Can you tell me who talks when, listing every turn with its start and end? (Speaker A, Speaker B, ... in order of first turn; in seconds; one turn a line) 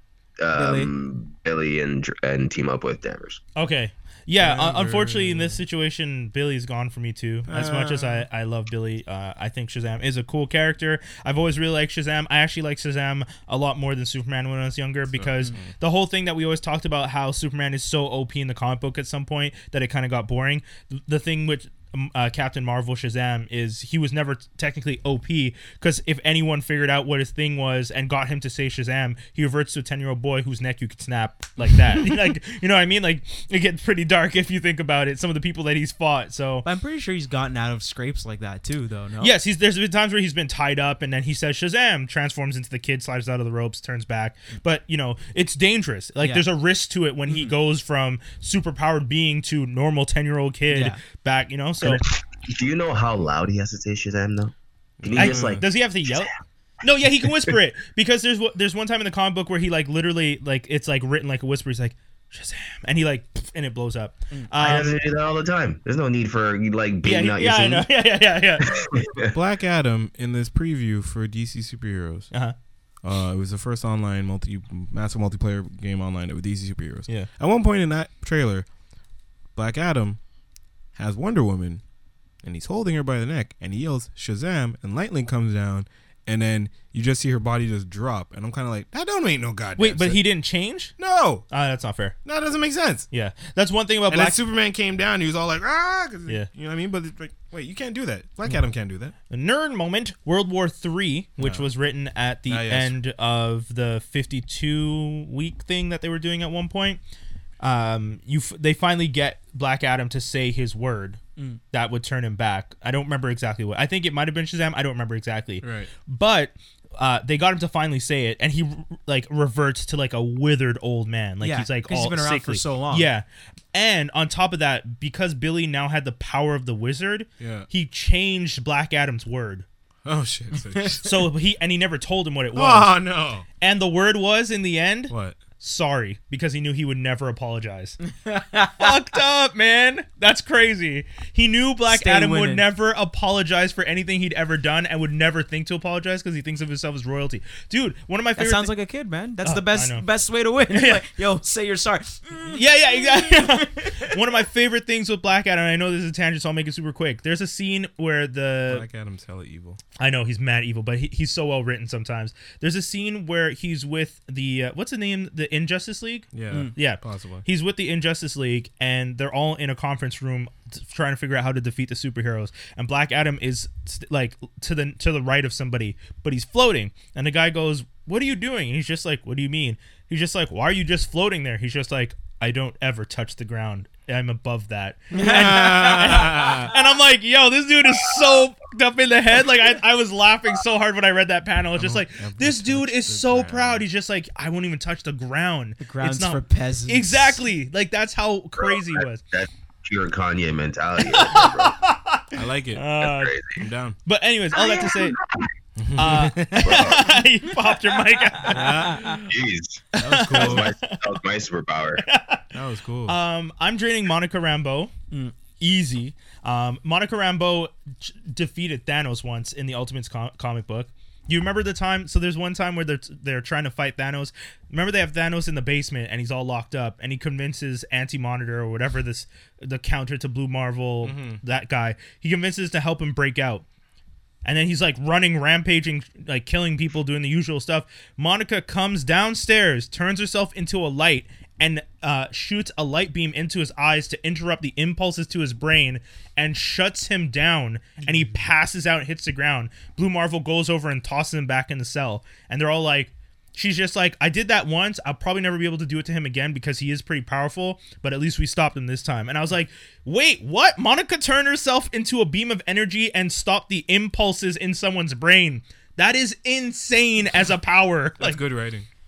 Speaker A: 0.4-3.4
Speaker B: 0.5-0.9
Speaker C: 3.6-36.7
Speaker D: 4.4-5.6
Speaker D: 7.5-8.3
Speaker D: 15.2-15.7
Speaker B: 36.6-39.3
Speaker C: 39.2-52.0
Speaker B: 46.2-46.5
Speaker B: 47.3-47.5
Speaker B: 50.7-51.0
Speaker A: 51.8-56.3
Speaker D: 55.0-55.6
Speaker C: 55.1-56.3
Speaker C: 56.8-65.0
Speaker A: 64.6-67.9
Speaker C: 67.0-68.8
Speaker A: 68.6-69.4
Speaker D: 69.3-72.3
Speaker D: 73.0-78.7
Speaker D: 79.5-80.2
Speaker D: 81.0-81.8
Speaker D: 82.4-90.2
Speaker C: 89.8-91.0
Speaker D: 91.0-91.4
Speaker C: 91.5-92.2
Speaker D: 92.2-93.1
Speaker C: 93.1-94.4
Speaker D: 94.1-99.2
Speaker C: 99.3-107.0
Speaker D: 101.4-101.7
Speaker D: 102.5-103.0
Speaker C: 107.6-111.2
Speaker C: 111.7-129.7
Speaker D: 115.6-115.9
Speaker B: 121.4-123.1
Speaker D: 127.4-127.7
Speaker D: 130.1-131.1
Speaker C: 131.0-133.0
Speaker D: 132.6-133.4
Speaker C: 133.6-138.0
Speaker D: 135.1-135.4
Speaker B: 138.1-139.0
Speaker C: 138.8-148.7
Speaker B: 141.9-142.7
Speaker B: 148.4-154.2
Speaker C: 149.4-150.1
Speaker C: 150.7-151.1
Speaker C: 152.5-158.8
Speaker D: 158.7-159.8
Speaker C: 160.0-199.2
Speaker D: 166.3-167.5
Speaker B: 185.1-186.6
Speaker D: 185.2-186.7
Speaker D: 191.8-193.8
Speaker B: 195.8-197.4
Speaker A: 198.6-201.8
Speaker C: 201.1-203.4
Speaker D: 202.3-202.9
Speaker A: 203.0-203.6
Speaker D: 203.6-204.0
Speaker C: 204.1-205.2
Speaker A: 204.5-205.5
Speaker D: 205.8-206.8
Speaker C: 206.0-209.2
Speaker A: 206.6-207.2
Speaker B: 208.2-209.2
Speaker D: 208.5-209.3
Speaker A: 209.3-212.1
Speaker D: 210.0-210.7
Speaker C: 210.0-211.0
Speaker C: 212.0-212.5
Speaker D: 212.5-213.2
Speaker C: 213.1-214.9
Speaker C: 215.6-233.6
Speaker D: 231.0-231.4
Speaker C: 234.4-268.4
Speaker D: 268.2-268.9